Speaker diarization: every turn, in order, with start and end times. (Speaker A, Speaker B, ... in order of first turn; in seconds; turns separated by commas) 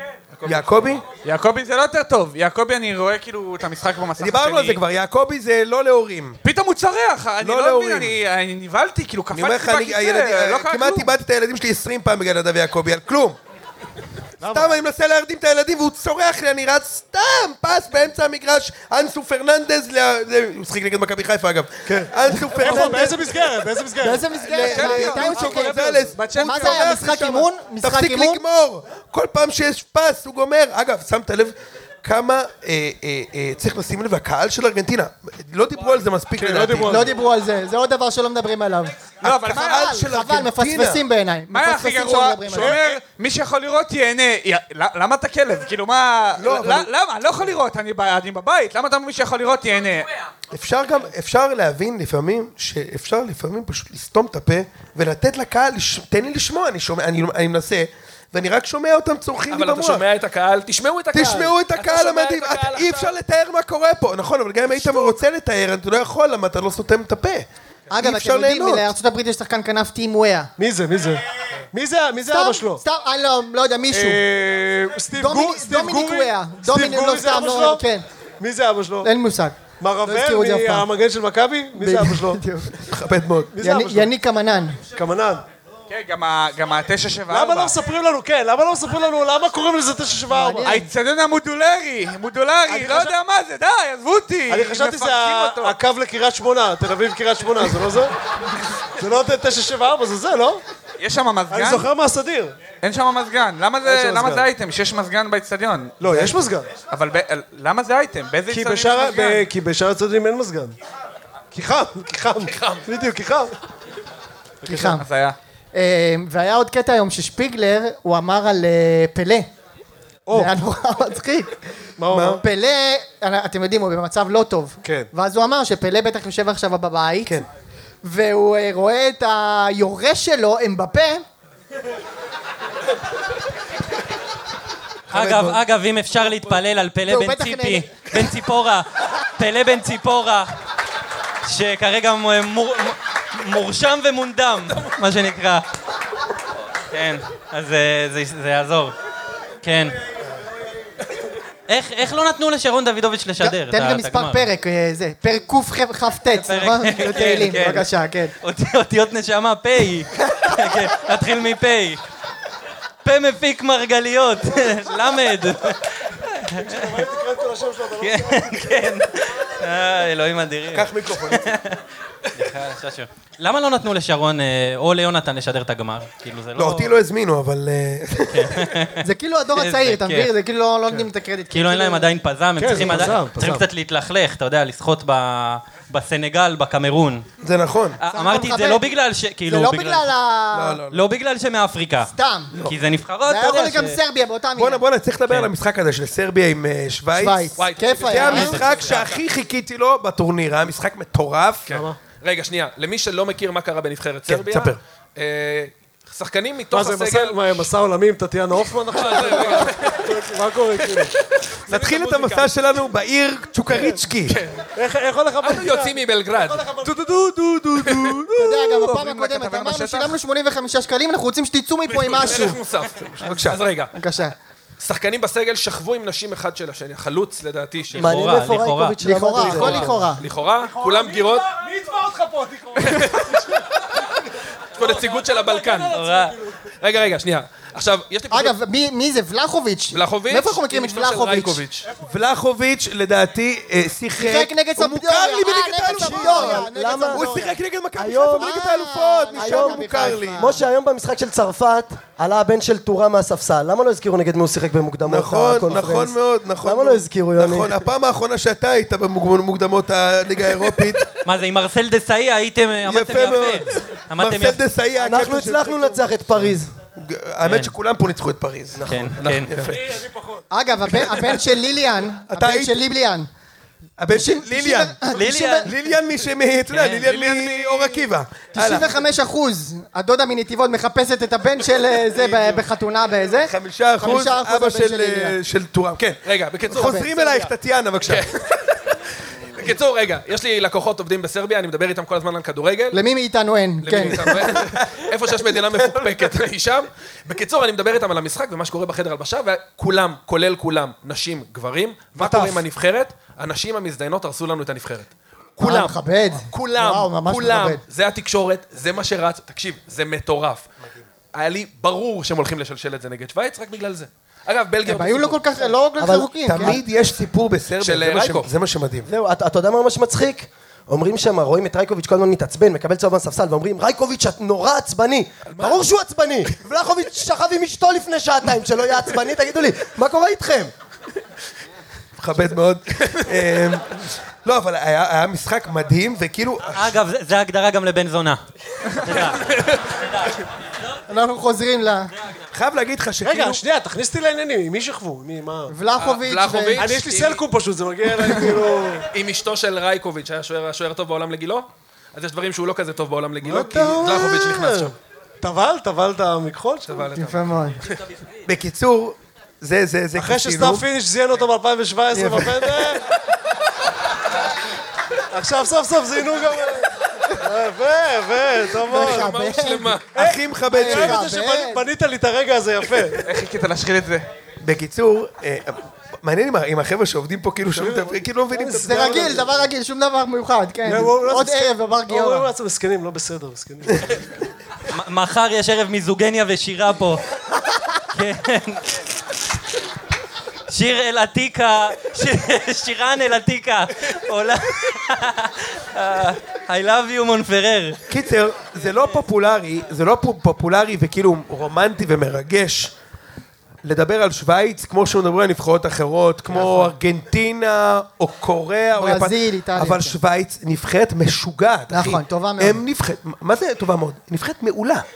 Speaker A: 0.3-1.0, Speaker B: 0.4-1.0, Speaker C: 1.2-4.8, Speaker B: 4.2-6.4, Speaker C: 6.4-11.1, Speaker B: 7.4-8.2, Speaker B: 9.3-13.4, Speaker D: 14.4-14.7, Speaker B: 14.4-23.4, Speaker D: 21.9-24.3, Speaker E: 22.6-23.1, Speaker E: 24.0-28.4, Speaker B: 24.4-37.1, Speaker C: 24.5-26.4, Speaker D: 25.8-26.9, Speaker D: 36.4-37.1, Speaker E: 36.9-42.8, Speaker C: 39.2-40.0, Speaker B: 39.2-41.0, Speaker C: 41.5-50.1, Speaker D: 42.5-42.9, Speaker B: 46.4-46.9, Speaker B: 50.5-60.1, Speaker A: 59.5-63.1, Speaker B: 61.1-68.9, Speaker E: 67.9-70.5, Speaker D: 70.6-71.2, Speaker D: 71.7-72.8, Speaker E: 72.3-74.2, Speaker D: 73.9-77.8, Speaker E: 75.2-78.0, Speaker D: 78.4-79.1, Speaker E: 79.0-80.9, Speaker D: 79.8-82.4, Speaker E: 81.8-82.7, Speaker B: 82.8-83.6, Speaker D: 83.5-84.1, Speaker E: 83.6-84.8, Speaker D: 85.0-85.4, Speaker C: 85.9-87.8, Speaker D: 87.3-90.8, Speaker E: 90.3-90.9, Speaker C: 90.6-95.8, Speaker D: 92.7-93.2, Speaker D: 94.5-98.1, Speaker D: 99.0-100.6, Speaker C: 101.0-101.9, Speaker D: 101.5-102.5, Speaker C: 102.8-106.4, Speaker D: 103.8-104.5, Speaker D: 106.0-106.7, Speaker C: 106.9-109.4, Speaker D: 108.5-110.8, Speaker D: 111.5-113.5, Speaker A: 112.4-112.9, Speaker D: 114.7-115.0, Speaker E: 114.7-115.0, Speaker C: 114.9-115.4, Speaker E: 115.7-119.5, Speaker D: 120.3-120.5, Speaker E: 120.3-121.5, Speaker D: 122.0-122.4, Speaker B: 122.1-122.4, Speaker E: 122.2-127.4, Speaker D: 124.8-125.1, Speaker E: 128.0-131.2, Speaker B: 135.1-135.6, Speaker F: 135.1-140.5, Speaker E: 137.1-138.1, Speaker F: 141.5-145.7, Speaker F: 146.9-148.9, Speaker F: 149.6-150.0, Speaker F: 151.7-154.5, Speaker E: 153.4-158.3, Speaker F: 156.3-157.9, Speaker F: 158.4-162.0, Speaker F: 163.0-167.0, Speaker D: 166.6-168.6, Speaker F: 168.0-171.8, Speaker B: 170.7-171.6, Speaker F: 172.3-176.9, Speaker B: 176.6-178.7, Speaker F: 178.3-179.1, Speaker E: 179.0-182.1, Speaker F: 179.6-180.3, Speaker F: 181.5-187.2, Speaker D: 182.6-183.7, Speaker B: 187.4-188.0, Speaker F: 188.0-190.1, Speaker E: 188.1-188.8, Speaker E: 189.5-190.8, Speaker B: 190.5-191.1, Speaker F: 190.9-194.0, Speaker E: 192.1-192.5, Speaker E: 193.3-194.8, Speaker B: 194.6-201.7, Speaker E: 197.1-198.6, Speaker A: 197.6-199.2, Speaker F: 198.6-199.0, Speaker A: 201.7-207.7, Speaker D: 201.7-202.0, Speaker B: 204.3-204.8, Speaker D: 206.7-211.1, Speaker A: 208.9-211.1, Speaker B: 211.7-214.4, Speaker D: 211.7-212.4, Speaker A: 214.3-214.7, Speaker D: 214.8-218.5, Speaker A: 215.4-216.8, Speaker B: 217.6-218.2, Speaker A: 217.8-218.2, Speaker E: 218.3-222.6, Speaker C: 218.6-220.2, Speaker A: 221.9-223.9, Speaker B: 223.2-223.6, Speaker E: 223.9-224.3, Speaker A: 224.8-228.2, Speaker F: 227.9-229.0, Speaker G: 227.9-230.1, Speaker E: 229.0-230.2, Speaker A: 229.6-231.5, Speaker D: 230.7-233.4, Speaker A: 232.8-233.5, Speaker A: 234.8-236.0, Speaker D: 234.8-236.5, Speaker F: 235.9-236.3, Speaker A: 236.8-238.6, Speaker E: 238.3-241.6, Speaker A: 239.9-241.9, Speaker B: 242.0-250.6, Speaker E: 244.2-247.6, Speaker G: 245.9-247.3, Speaker G: 248.0-248.5, Speaker E: 248.3-250.6, Speaker G: 249.4-257.8, Speaker B: 255.1-261.1, Speaker F: 261.1-264.6, Speaker B: 262.9-266.1, Speaker G: 265.0-266.7, Speaker B: 267.0-268.8, Speaker F: 267.4-267.7, Speaker G: 268.8-269.1, Speaker F: 268.9-269.7, Speaker A: 269.2-269.5, Speaker B: 269.5-269.8, Speaker D: 269.7-270.4, Speaker E: 270.5-273.3, Speaker B: 272.3-272.9, Speaker B: 274.0-278.9, Speaker E: 274.1-275.7, Speaker F: 275.1-275.8, Speaker F: 276.7-278.0, Speaker E: 278.5-285.4, Speaker B: 283.4-288.3, Speaker A: 286.2-287.3, Speaker E: 286.7-287.3, Speaker A: 288.0-288.4, Speaker A: 289.5-293.0, Speaker E: 292.9-294.4, Speaker A: 293.8-310.7, Speaker B: 294.4-294.7, Speaker E: 305.6-307.8, Speaker A: 311.3-315.7, Speaker E: 314.9-316.8, Speaker G: 316.0-316.8, Speaker B: 316.5-319.1, Speaker A: 317.8-318.5, Speaker G: 319.1-330.7, Speaker A: 325.5-325.8, Speaker B: 332.2-336.9, Speaker F: 336.7-338.4, Speaker F: 338.9-339.4, Speaker A: 339.4-339.8, Speaker E: 341.1-342.1, Speaker B: 342.5-343.6, Speaker D: 343.2-345.7, Speaker E: 345.7-346.9, Speaker A: 346.0-347.4, Speaker D: 346.8-349.1, Speaker A: 349.1-354.9, Speaker D: 353.4-357.1, Speaker A: 356.9-357.9, Speaker E: 357.1-357.8, Speaker B: 358.5-360.9, Speaker D: 360.2-363.0, Speaker E: 362.1-362.5, Speaker D: 365.3-369.3, Speaker E: 368.8-370.0, Speaker A: 368.9-370.2, Speaker D: 370.1-373.2, Speaker B: 370.1-371.2, Speaker E: 370.7-371.9, Speaker C: 373.2-374.3, Speaker B: 374.6-379.4, Speaker D: 377.7-379.6, Speaker E: 378.8-382.5, Speaker D: 380.8-384.2, Speaker F: 384.9-387.2, Speaker F: 388.1-389.0, Speaker F: 390.7-398.0, Speaker B: 398.1-402.9, Speaker B: 403.8-415.1, Speaker E: 409.0-410.2, Speaker E: 411.9-412.8